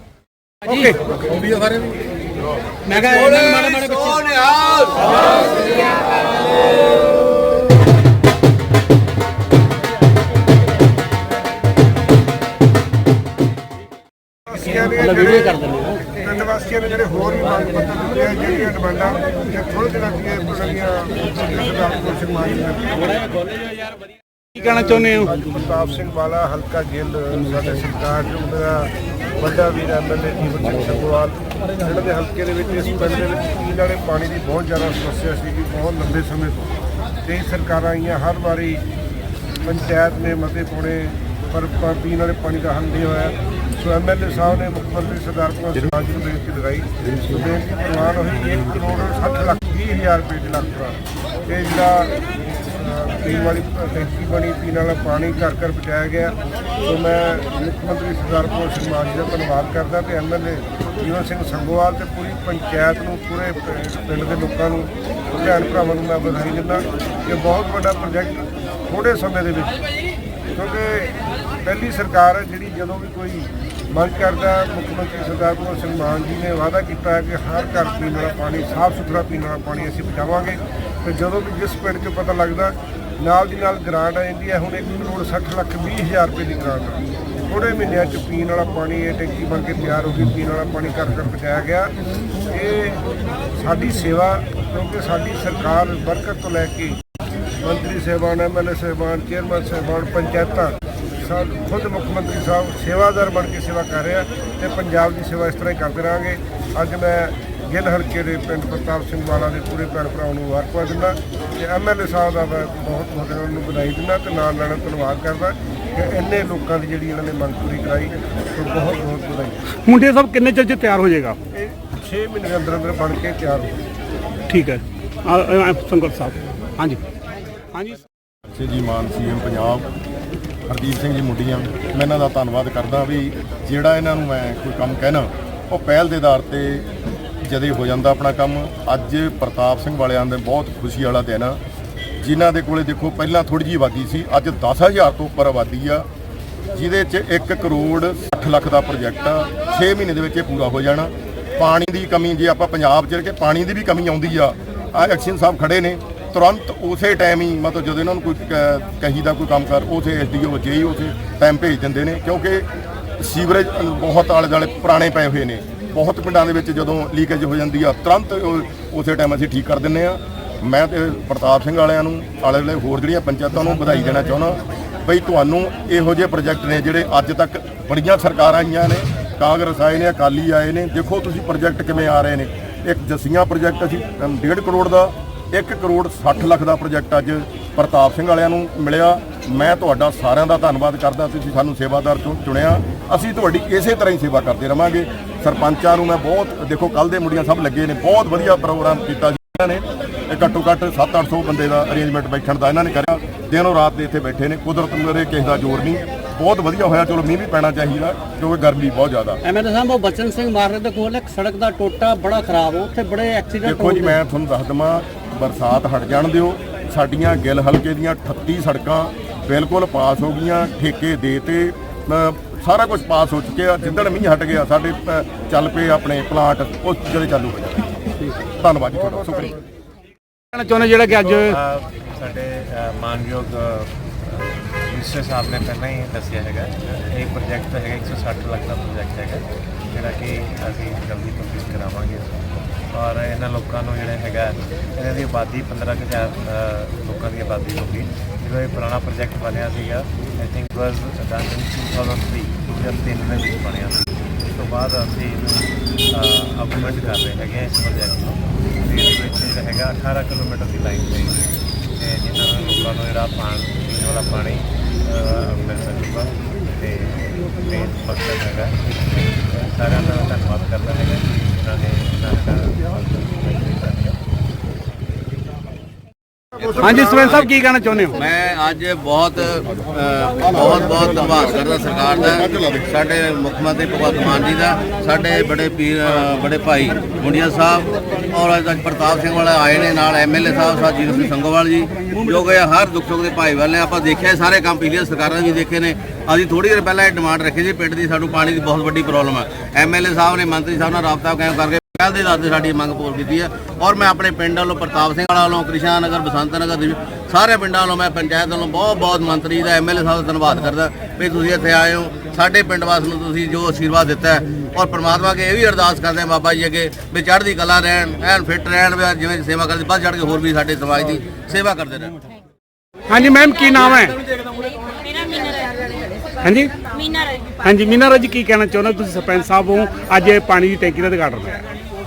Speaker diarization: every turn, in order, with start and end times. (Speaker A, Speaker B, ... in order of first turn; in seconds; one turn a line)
Speaker A: 0.6-1.0
Speaker A: 3.0-3.3
Speaker B: 3.2-3.7
Speaker C: 3.3-4.8
Speaker D: 14.4-23.4
Speaker B: 15.0-15.9
Speaker A: 24.5-25.3
Speaker D: 24.9-38.8
Speaker D: 39.6-69.8
Speaker D: 70.5-91.9
Speaker D: 92.4-93.0
Speaker D: 93.5-97.0
Speaker D: 97.6-119.6
Speaker A: 119.8-121.4
Speaker D: 121.5-123.8
Speaker A: 124.5-127.0
Speaker A: 127.7-128.0
Speaker E: 128.5-129.9
Speaker E: 130.7-141.6
Speaker E: 142.2-146.1
Speaker E: 146.7-162.7
Speaker E: 163.2-209.4
Speaker B: 209.5-213.9
Speaker C: 211.9-214.0
Speaker E: 213.6-229.6
Speaker D: 228.9-229.6
Speaker A: 230.5-231.6
Speaker F: 231.3-274.2
Speaker A: 276.8-278.2
Speaker C: 277.2-277.5
Speaker C: 278.2-322.1
Speaker A: 323.1-324.2
Speaker G: 324.4-327.6
Speaker A: 326.4-326.8
Speaker A: 327.6-331.6